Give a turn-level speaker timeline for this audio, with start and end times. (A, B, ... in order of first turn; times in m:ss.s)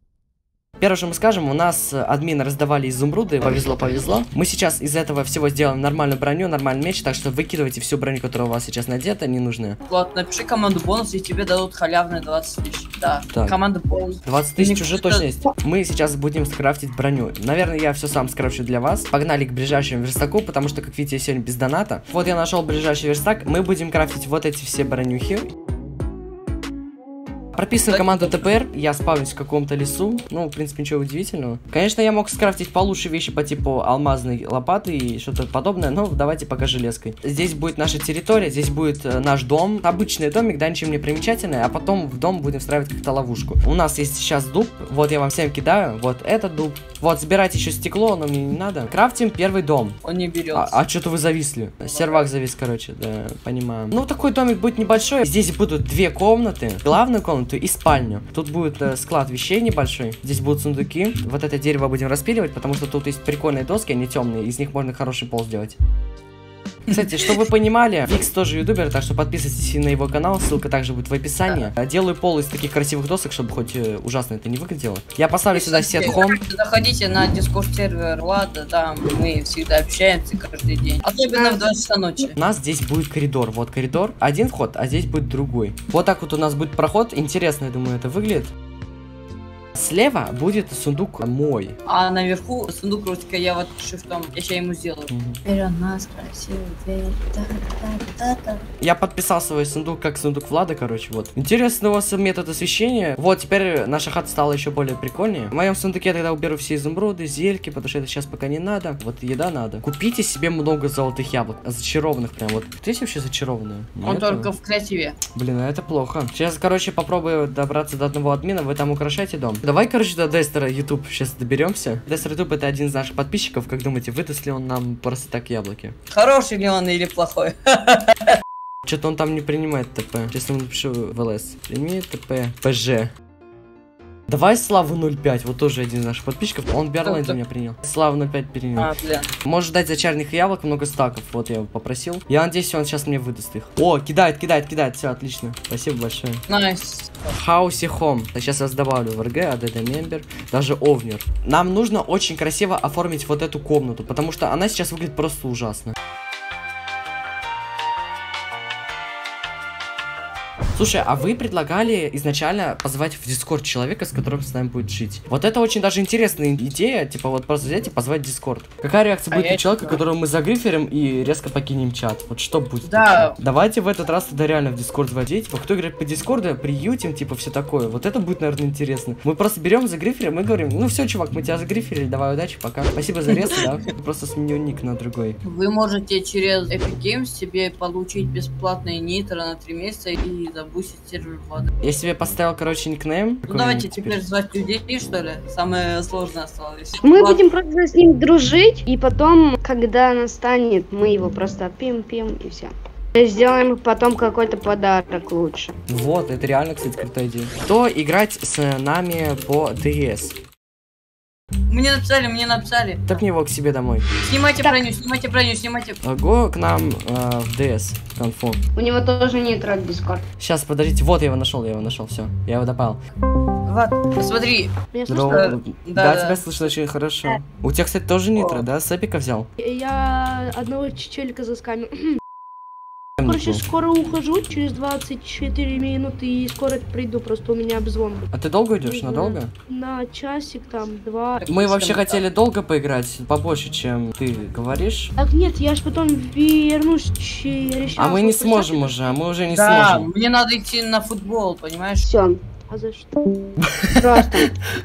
0:00.8-0:09.8 A
0:09.9-0:15.3 B
0:14.2-0:25.5 A
0:27.6-0:50.0 A
0:27.9-0:28.4 B
0:50.0-0:50.8 B
0:50.5-1:05.8 A
0:51.8-0:52.3 B
1:06.9-1:16.4 A
1:06.9-1:07.3 B
1:15.5-1:22.4 B
1:21.3-1:21.7 C
1:22.4-1:28.5 A
1:29.7-1:31.8 A
1:31.9-1:38.7 B
1:35.1-1:35.4 A
1:38.8-1:54.5 A
1:54.0-1:55.2 B
1:55.3-2:06.0 A
2:06.1-2:08.4 B
2:08.9-2:13.1 A
2:14.3-2:18.9 A
2:17.0-2:17.4 B
2:18.8-2:19.3 B
2:19.4-2:26.4 A
2:26.5-2:27.3 B
2:27.3-2:36.0 A
2:40.8-3:05.4 A
2:49.3-2:50.0 B
2:52.8-2:53.4 B
3:03.3-3:03.6 B
3:05.4-3:11.7 B
3:11.8-3:14.2 A
3:13.5-3:17.4 B
3:17.0-3:25.7 C
3:25.9-3:30.4 A
3:31.7-3:33.2 B
3:33.1-3:34.1 A
3:34.2-3:36.0 B
3:36.0-3:38.6 A
3:38.8-3:40.2 C
3:40.4-3:43.0 A
3:43.7-3:44.7 B
3:45.0-3:45.6 D
3:45.1-3:49.5 A
3:45.3-3:46.4 B
3:48.4-3:48.6 B
3:49.6-3:51.9 D
3:53.2-3:53.6 A
3:53.2-3:58.3 D
3:58.3-3:59.5 A
3:58.8-4:01.5 D
4:01.4-4:02.2 B
4:01.5-4:05.1 A
4:05.2-4:09.0 D
4:08.0-4:10.1 A
4:09.5-4:12.1 B
4:12.0-4:12.4 C
4:12.7-4:13.1 D
4:13.6-4:14.0 A
4:14.0-4:14.5 C